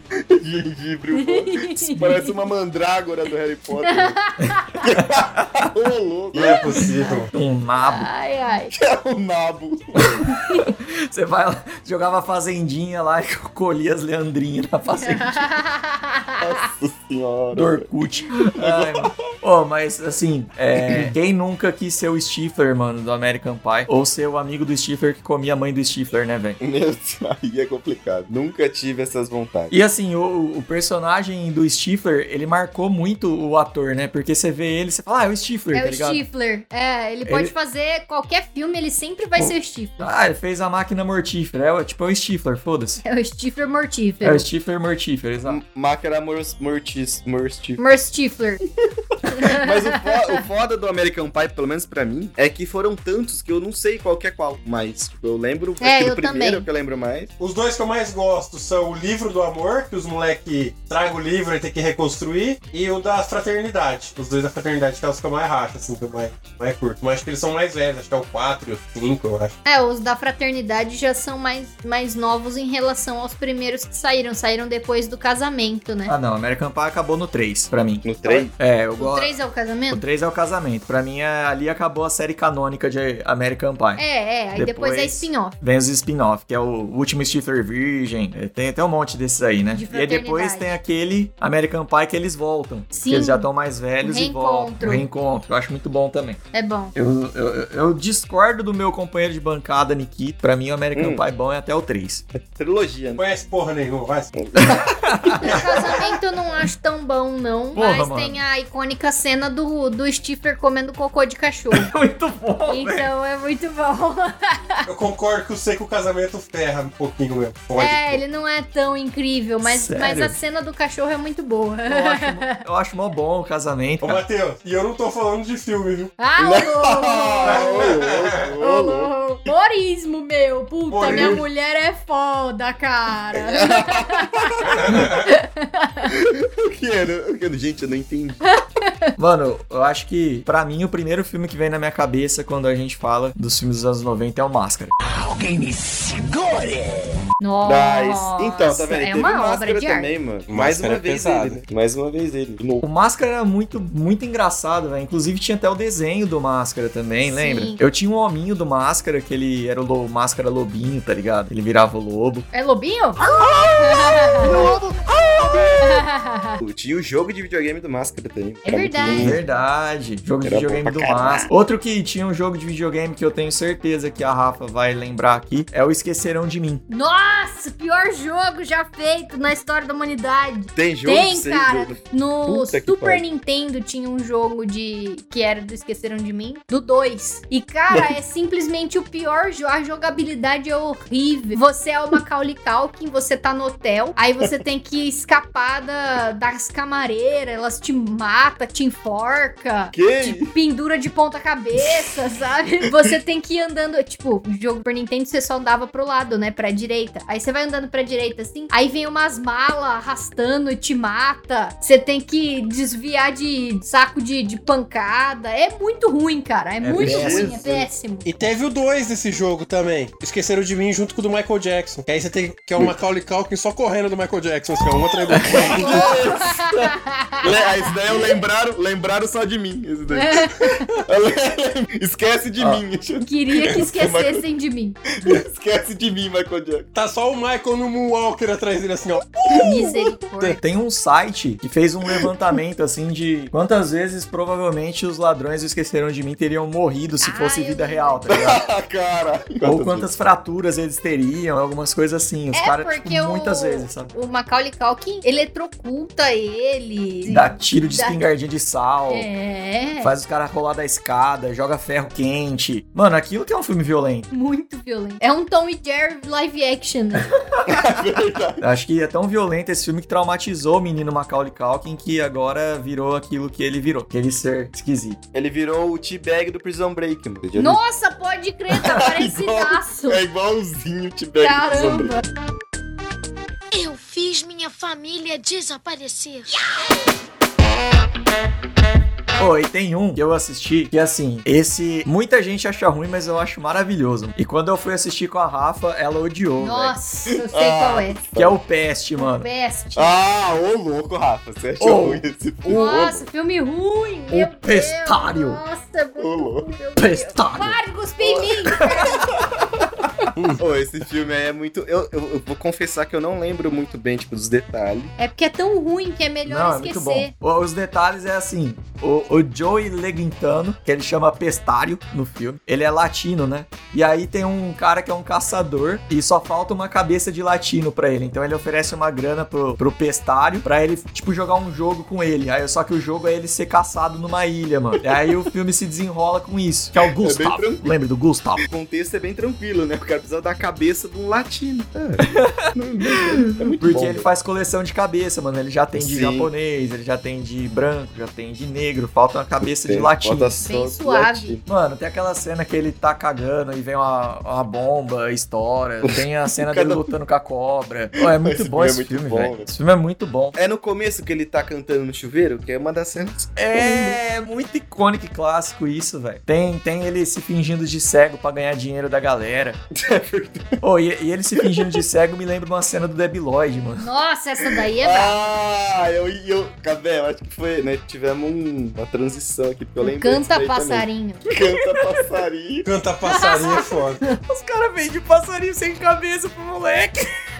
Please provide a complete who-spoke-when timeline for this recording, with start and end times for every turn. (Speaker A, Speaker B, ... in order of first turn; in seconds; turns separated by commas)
Speaker A: 0.3-4.2, Speaker B: 1.1-2.3, Speaker B: 3.8-4.8, Speaker A: 4.8-6.7, Speaker C: 4.9-5.7, Speaker D: 6.3-7.3, Speaker C: 7.3-8.1, Speaker B: 7.8-8.7, Speaker A: 8.7-10.3, Speaker C: 10.1-15.5, Speaker B: 15.0-16.5, Speaker A: 16.4-17.9, Speaker C: 17.5-26.6, Speaker A: 18.4-19.1, Speaker A: 20.8-21.1, Speaker A: 26.6-29.8, Speaker C: 29.7-36.2, Speaker B: 35.7-40.1, Speaker C: 37.2-37.5, Speaker C: 39.4-43.0, Speaker B: 43.0-44.5, Speaker C: 44.2-45.6, Speaker A: 45.5-47.8, Speaker B: 47.8-48.6, Speaker B: 49.3-50.0, Speaker A: 49.3-57.3, Speaker B: 55.8-56.6, Speaker D: 57.4-69.5, Speaker B: 69.6-76.1, Speaker C: 76.0-79.3, Speaker A: 78.0-78.5, Speaker B: 79.0-80.0, Speaker C: 79.9-84.0, Speaker B: 84.0-85.5, Speaker C: 84.5-96.4, Speaker B: 89.7-90.7, Speaker B: 92.9-93.5, Speaker B: 94.0-95.0, Speaker B: 96.5-96.9, Speaker C: 96.9-102.2, Speaker A: 100.9-101.2, Speaker A: 102.3-103.2, Speaker D: 103.2-104.3, Speaker A: 104.4-106.0, Speaker C: 104.6-105.6, Speaker B: 105.4-111.9, Speaker C: 107.7-108.4, Speaker C: 111.7-113.1, Speaker B: 112.7-114.8, Speaker D: 114.8-118.2, Speaker B: 117.8-122.6, Speaker C: 119.6-120.3, Speaker C: 121.9-124.2, Speaker D: 124.0-126.1, Speaker B: 126.2-127.8, Speaker A: 126.4-129.1, Speaker D: 127.4-128.4, Speaker B: 128.6-136.1, Speaker D: 130.9-131.4, Speaker A: 131.1-131.4, Speaker A: 133.3-135.1, Speaker D: 134.8-135.2, Speaker A: 136.1-138.4, Speaker B: 138.5-139.1, Speaker C: 139.2-144.9, Speaker E: 145.0-147.2, Speaker B: 147.4-150.1, Speaker A: 147.6-152.8, Speaker D: 150.5-151.6, Speaker C: 152.8-162.5, Speaker B: 157.3-157.8, Speaker B: 162.5-163.2, Speaker E: 163.3-165.9, Speaker B: 163.8-164.6, Speaker A: 164.4-164.8, Speaker A: 165.5-165.9, Speaker B: 165.8-166.6, Speaker A: 166.6-169.4, Speaker B: 168.6-169.3, Speaker D: 169.1-169.3, Speaker C: 169.2-176.8, Speaker A: 170.4-171.5, Speaker B: 176.9-218.3, Speaker A: 180.7-183.2, Speaker A: 199.9-200.5, Speaker C: 216.8-217.6, Speaker A: 217.0-217.9, Speaker D: 218.2-226.1, Speaker C: 225.3-225.7, Speaker A: 225.4-234.4, Speaker B: 225.8-227.5, Speaker B: 230.1-230.9, Speaker B: 233.2-235.0, Speaker A: 235.2-236.9, Speaker D: 236.9-240.6, Speaker B: 239.6-240.6, Speaker C: 240.6-248.6, Speaker B: 247.2-248.2, Speaker A: 248.3-250.1, Speaker C: 249.6-254.1, Speaker B: 252.5-258.2, Speaker C: 257.2-259.3, Speaker B: 259.1-260.1, Speaker C: 260.0-264.3, Speaker B: 264.3-267.3, Speaker C: 267.4-267.9, Speaker A: 267.6-268.6, Speaker C: 268.6-275.2, Speaker A: 275.3-277.8, Speaker B: 277.6-280.2, Speaker A: 278.7-282.1, Speaker B: 281.4-282.2, Speaker F: 283.7-286.5, Speaker C: 289.4-296.9, Speaker B: 296.6-298.2, Speaker A: 297.3-298.6, Speaker C: 298.4-299.5, Speaker B: 299.2-300.1, Speaker A: 299.9-303.3, Speaker C: 301.8-302.2, Speaker B: 302.7-309.3, Speaker C: 304.3-305.6, Speaker A: 306.2-306.7, Speaker C: 306.9-307.8, Speaker A: 308.2-310.0, Speaker C: 308.7-309.4, Speaker D: 310.4-310.6, Speaker A: 310.6-315.1, Speaker B: 315.2-317.3, Speaker C: 316.4-338.6, Speaker A: 337.2-337.9, Speaker A: 338.6-344.2, Speaker C: 342.3-350.6, Speaker A: 345.9-346.5, Speaker A: 349.6-351.6, Speaker B: 350.6-351.5, Speaker C: 351.6-360.6, Speaker A: 356.1-357.1, Speaker A: 358.2-359.7, Speaker A: 360.5-364.2, Speaker C: 363.6-369.8, Speaker A: 369.9-370.8, Speaker C: 370.8-374.1, Speaker A: 371.6-372.0, Speaker B: 374.0-375.4, Speaker A: 374.7-382.9, Speaker B: 380.0-381.4, Speaker D: 382.8-384.2, Speaker B: 383.3-383.8, Speaker C: 384.5-387.2